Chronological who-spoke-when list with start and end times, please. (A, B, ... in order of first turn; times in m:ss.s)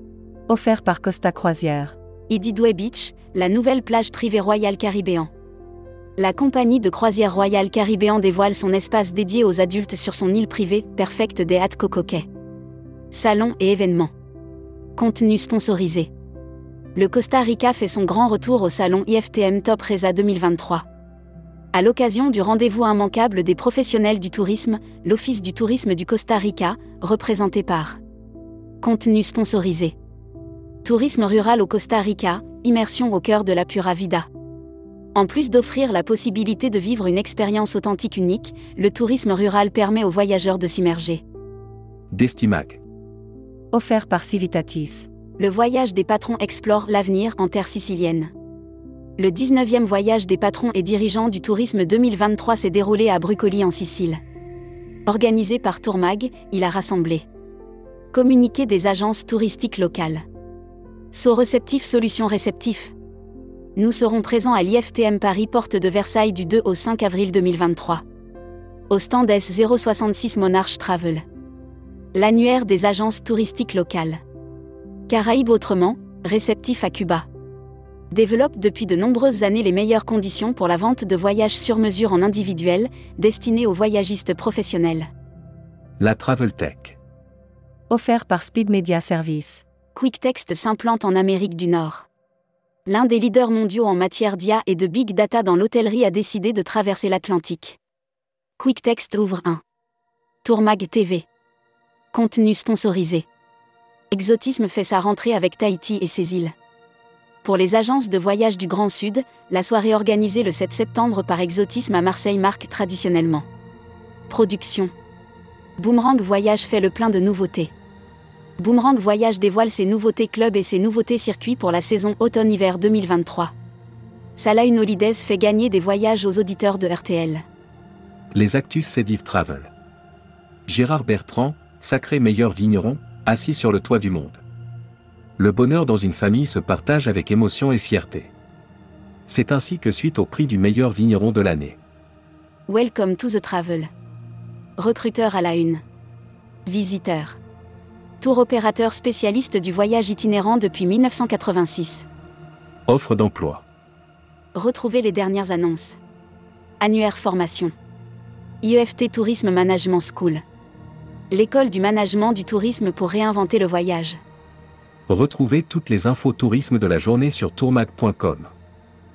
0:00.5-0:02.0 A
0:02.3-0:05.3 B
0:06.2-0:12.2 B
0:13.1-0:14.1 B
0:15.0-0:16.1 B
0:17.0-0:20.8 B
0:21.7-0:28.0 B
0:28.8-0:30.0 B
0:30.8-0:34.3 B
0:35.2-0:41.2 B
0:42.1-0:42.8 C
0:43.7-0:45.1 A
0:45.4-0:48.3 B
0:49.2-0:54.2 B
0:55.1-0:57.2 B
0:58.1-1:00.2 B
1:01.1-1:02.9 B
1:03.8-1:08.0 B
1:08.9-1:11.2 B
1:12.1-1:14.2 B
1:15.1-1:17.2 B
1:18.1-1:25.1 B
1:26.0-1:27.0 C
1:27.9-1:29.6 A
1:30.0-1:32.1 B
1:32.9-1:37.8 B
1:38.6-1:39.6 B
1:40.4-1:41.3 B
1:42.1-1:43.3 B
1:44.1-1:46.5 B
1:47.4-1:53.4 B
1:54.3-1:54.9 B
1:55.8-1:57.7 B
1:58.6-2:03.5 B
2:04.4-2:07.4 B
2:08.3-2:09.7 C
2:10.7-2:14.4 C
2:15.4-2:18.3 C
2:19.3-2:21.8 C
2:22.7-2:23.9 B
2:24.8-2:25.8 B
2:26.7-2:27.4 B
2:28.2-2:32.1 B
2:32.9-2:33.6 C
2:34.5-2:36.0 B
2:36.8-2:37.7 B
2:38.6-2:40.4 B
2:41.3-2:44.2 B
2:45.1-2:48.5 C